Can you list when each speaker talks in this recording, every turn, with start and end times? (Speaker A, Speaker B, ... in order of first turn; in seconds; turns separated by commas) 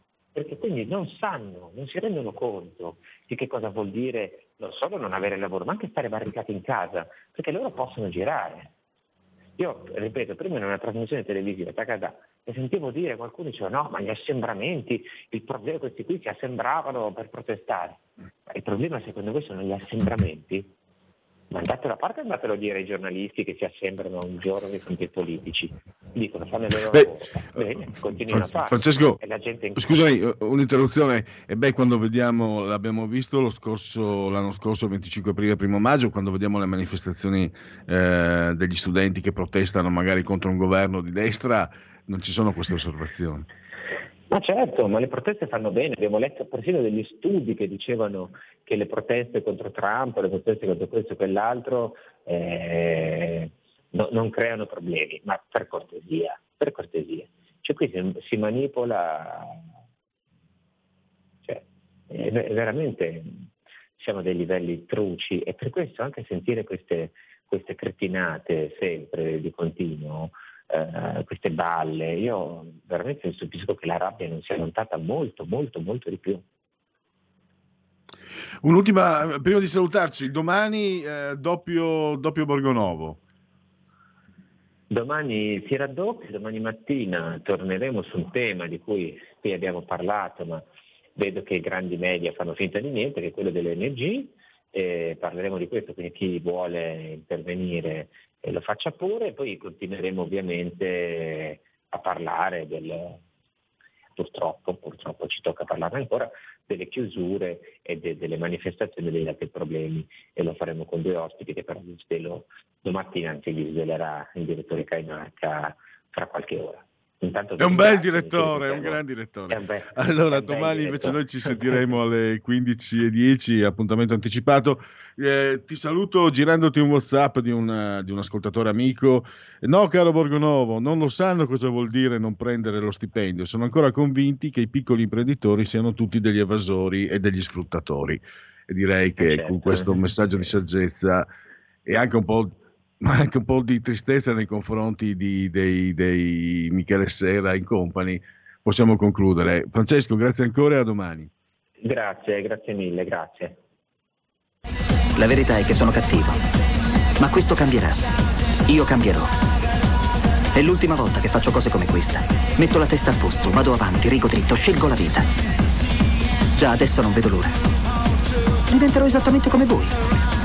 Speaker A: 0.3-8.7, Speaker A: 9.6-20.7, Speaker A: 21.5-30.0, Speaker B: 26.9-29.2, Speaker B: 29.8-43.5, Speaker A: 44.3-59.6, Speaker A: 61.4-63.5, Speaker A: 64.0-76.4, Speaker B: 78.6-83.2, Speaker A: 84.9-90.6, Speaker A: 91.2-103.2, Speaker A: 104.2-121.9, Speaker B: 117.6-141.3, Speaker A: 139.2-140.5, Speaker B: 141.8-151.3, Speaker A: 151.8-153.6, Speaker C: 155.2-156.4, Speaker C: 157.2-158.0, Speaker C: 158.7-159.3, Speaker C: 160.5-165.3, Speaker C: 166.5-167.6, Speaker C: 168.7-169.9